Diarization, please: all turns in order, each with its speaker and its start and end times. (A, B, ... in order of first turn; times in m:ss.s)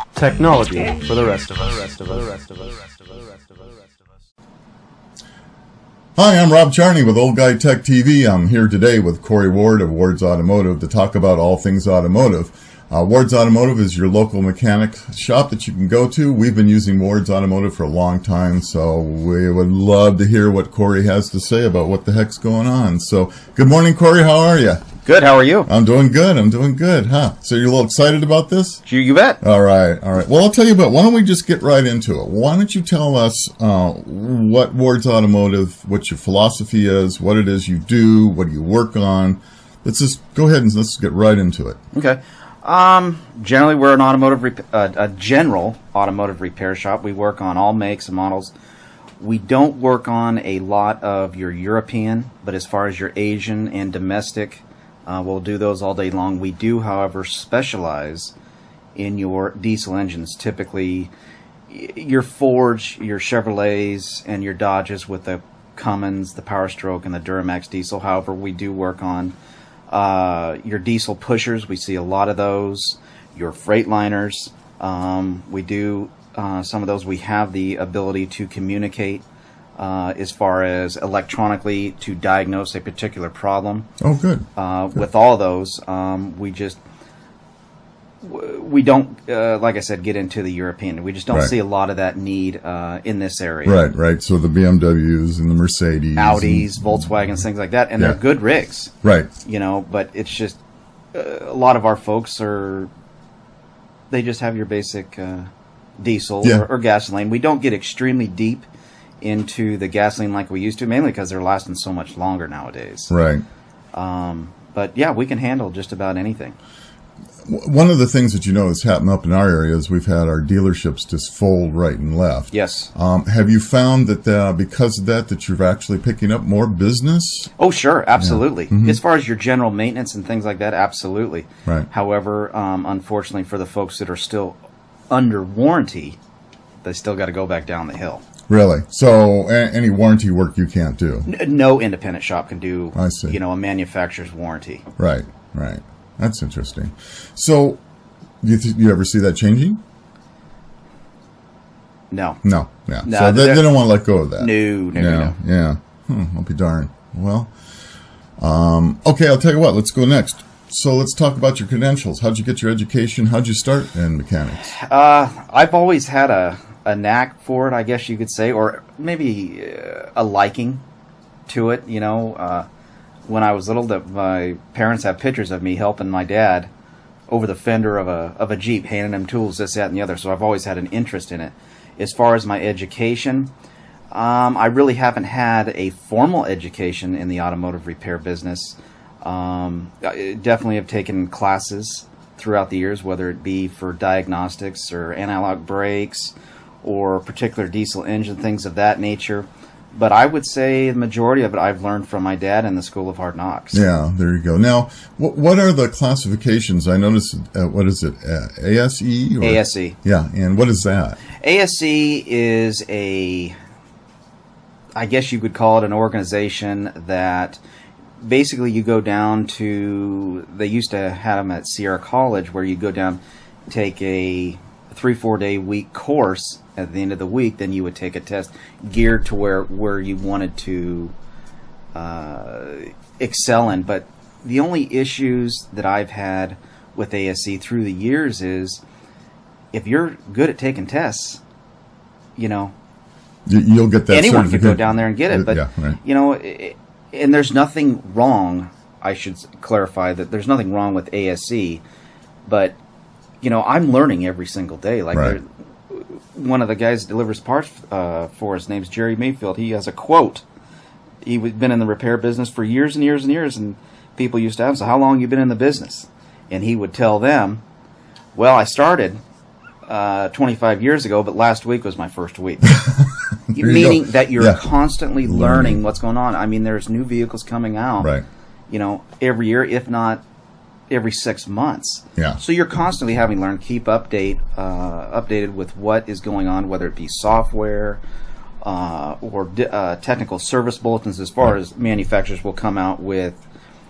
0:00.1-0:03.9 A
0:06.2-0:24.8 B
0:25.0-0:25.7 C
0:25.7-0:28.8 B
0:28.8-0:29.4 C
0:29.4-0:41.8 B
0:41.9-0:48.5 C
0:49.2-0:58.3 C
0:59.0-1:01.1 C
1:01.7-1:09.3 C
1:09.9-1:19.2 C
1:19.8-1:23.9 C
1:24.0-1:24.5 B
1:24.6-1:26.8 C
1:28.2-1:33.8 C
1:33.6-1:37.2 B
1:36.1-1:38.9 C
1:39.0-1:39.3 B
1:39.4-1:40.6 C
1:41.1-1:42.9 C
1:44.1-1:48.7 C
1:49.2-1:53.1 C
1:53.1-1:53.4 B
1:53.9-1:56.6 C
1:57.4-2:07.5 B
2:02.5-2:02.9 C
2:07.6-2:14.6 C
2:08.2-2:09.0 B
2:15.1-2:16.2 C
2:16.8-2:18.2 C
2:18.5-2:21.3 B
2:21.2-2:24.8 C
2:22.9-2:23.4 B
2:25.0-2:27.8 B
2:28.4-2:29.8 B
2:32.1-2:32.4 C
2:32.4-2:37.5 B
2:33.0-2:33.8 C
2:34.4-2:35.4 C
2:38.4-2:44.7 B
2:44.7-2:50.8 C
2:51.5-2:52.7 C
2:53.3-2:56.7 C
2:57.3-3:03.5 C
3:04.1-3:23.8 C
3:23.7-3:31.2 B
3:29.4-3:30.0 C
3:31.4-3:33.6 C
3:34.9-3:37.6 C
3:38.2-3:51.1 C
3:51.9-3:58.8 C
3:59.7-4:01.4 C
4:02.4-4:02.7 C
4:03.4-4:06.0 B
4:04.1-4:11.8 C
4:12.4-4:12.8 C
4:13.4-4:20.4 C
4:15.1-4:15.4 B
4:21.2-4:27.6 C
4:28.3-4:29.2 C
4:29.8-4:32.8 C
4:32.6-4:34.6 B
4:33.5-4:38.1 C
4:35.2-4:35.8 B
4:38.7-4:40.2 C
4:40.9-4:48.0 C
4:48.6-4:53.4 C